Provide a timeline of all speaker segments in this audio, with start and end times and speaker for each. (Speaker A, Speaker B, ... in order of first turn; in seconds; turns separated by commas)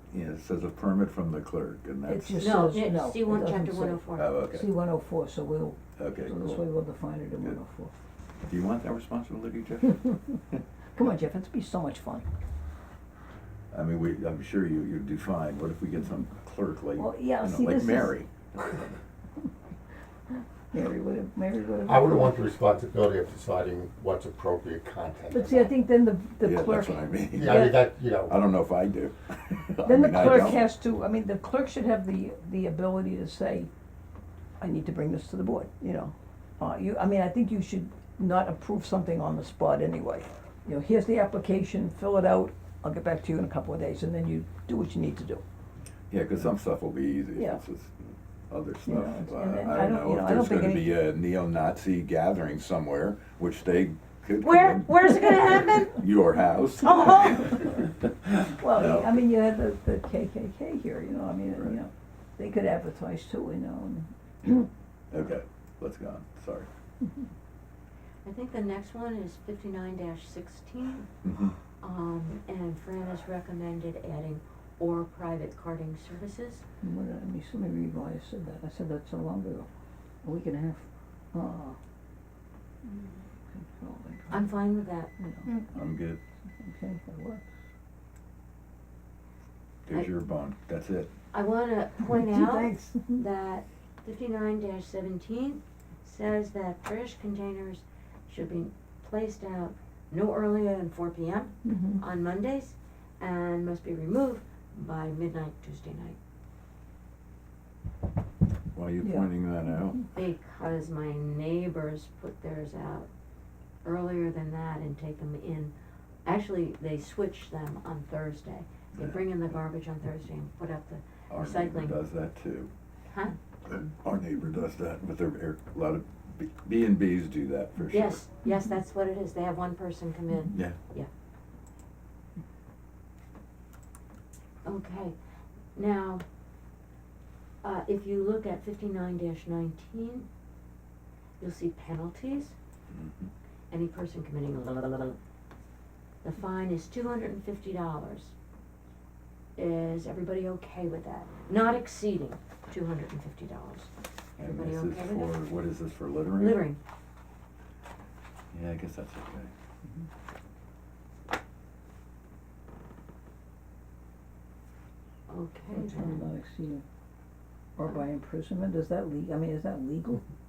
Speaker A: 0.1-2.6, Speaker B: 2.0-7.9, Speaker C: 2.4-4.3, Speaker A: 4.2-4.7, Speaker A: 6.0-6.6, Speaker A: 8.4-10.6, Speaker B: 10.9-12.2, Speaker A: 13.7-18.9, Speaker B: 16.9-18.2, Speaker B: 20.7-22.3, Speaker D: 21.9-25.7, Speaker B: 25.3-27.7, Speaker A: 26.4-30.6, Speaker D: 27.3-28.3, Speaker B: 29.8-33.7, Speaker B: 34.6-45.4, Speaker A: 46.1-57.6, Speaker B: 47.3-47.6, Speaker B: 48.8-51.0, Speaker C: 54.4-56.0, Speaker C: 56.8-57.8, Speaker B: 57.6-64.7, Speaker A: 58.2-59.2, Speaker A: 65.1-66.7, Speaker C: 68.2-71.1, Speaker A: 71.2-71.5, Speaker C: 71.8-76.6, Speaker B: 76.8-79.7, Speaker B: 80.2-81.8, Speaker B: 82.8-84.5, Speaker C: 84.3-85.1, Speaker B: 85.2-85.6, Speaker A: 85.7-86.2, Speaker B: 86.6-87.5, Speaker A: 89.8-91.1, Speaker C: 91.3-106.2, Speaker B: 92.1-93.2, Speaker B: 101.6-102.0, Speaker A: 108.7-110.0, Speaker B: 109.0-109.3, Speaker C: 110.1-113.1, Speaker C: 113.8-115.7, Speaker C: 116.2-122.0, Speaker A: 118.9-119.2, Speaker A: 121.3-122.7, Speaker C: 123.1-123.3, Speaker A: 123.6-128.2, Speaker C: 127.9-131.1, Speaker C: 134.6-135.2, Speaker C: 135.7-136.2, Speaker C: 137.6-140.3, Speaker C: 141.4-142.5, Speaker A: 142.9-143.3, Speaker C: 143.7-145.2, Speaker C: 146.2-148.3, Speaker C: 149.6-155.4, Speaker A: 154.4-156.6, Speaker C: 156.4-156.8, Speaker A: 158.5-159.5, Speaker C: 165.3-166.3, Speaker B: 165.7-166.8, Speaker B: 167.8-170.2